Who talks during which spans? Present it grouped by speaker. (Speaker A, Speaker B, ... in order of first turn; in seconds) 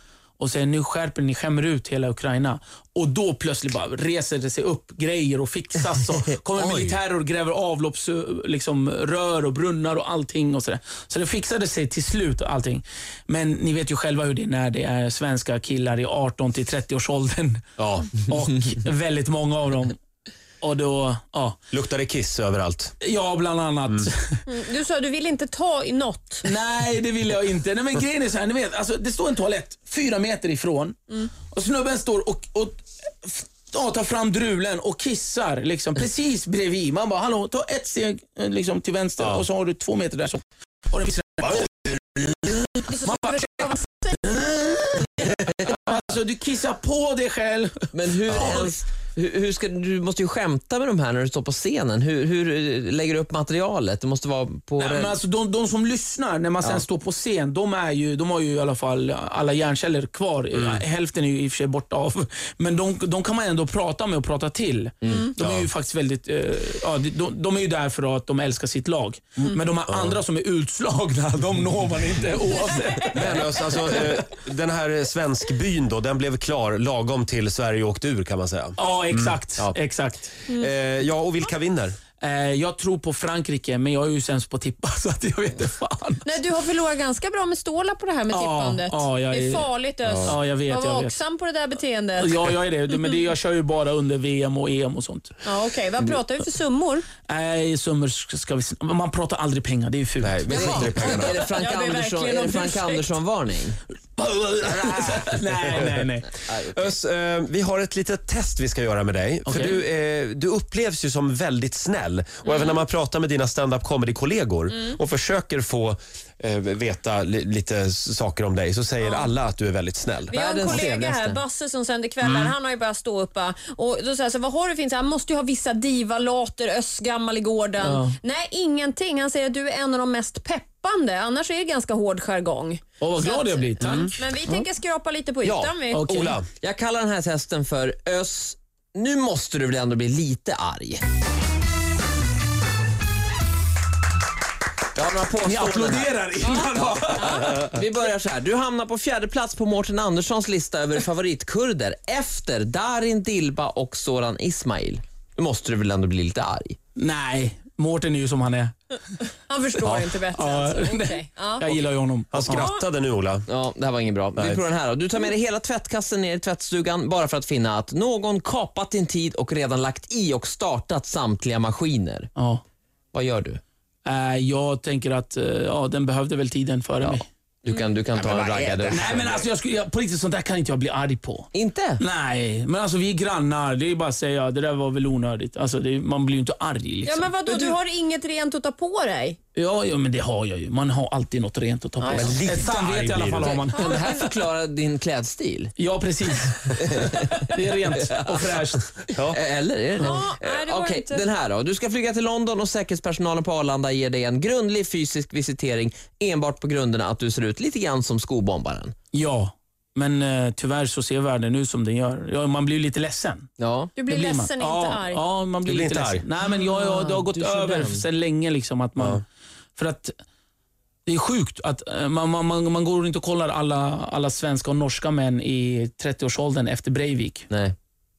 Speaker A: 0.4-20.0, 20.6-21.6, 23.0-24.4, 26.4-48.8, 54.8-74.1, 78.8-80.3, 82.2-86.2, 88.3-89.7, 90.2-91.2, 92.2-95.4, 97.3-100.9, 104.2-106.3, 109.5-109.8, 127.8-128.2, 133.0-134.2, 135.9-136.4, 145.4-147.7, 156.9-158.9, 160.3-162.7, 172.3-172.6, 174.0-177.3, 178.9-187.8, 189.6-194.3, 195.8-199.1, 209.1-213.5, 214.1-219.2, 219.8-220.1, 221.1-227.5
Speaker B: 6.6-7.0, 17.8-18.1, 21.7-22.9, 60.5-60.8, 65.4-65.7, 69.9-70.2, 73.1-79.8, 80.5-82.0, 90.1-90.3, 100.2-101.4, 106.7-120.8, 122.2-122.5, 133.8-134.1, 135.4-136.5, 159.8-160.1, 162.3-163.5, 164.4-164.6, 178.1-179.4, 192.1-193.7, 215.7-216.3
Speaker C: 24.5-26.4, 42.9-44.2, 72.7-73.0, 86.2-92.3, 95.4-97.1, 100.5-103.1, 112.5-112.8, 119.0-119.3, 120.3-136.1, 159.5-161.8, 162.4-162.8, 177.7-177.9, 187.1-189.4, 192.0-192.4, 193.7-194.2, 200.0-201.2, 213.9-215.2
Speaker D: 47.9-55.2, 100.5-103.8, 106.3-106.9, 120.3-121.4, 136.6-141.0, 144.9-156.8, 163.5-172.3, 173.1-173.6, 177.6-179.3, 181.5-182.0, 193.8-195.7, 196.9-197.2, 198.0-198.5, 199.3-208.9, 213.6-213.9, 216.5-218.1, 227.5-227.8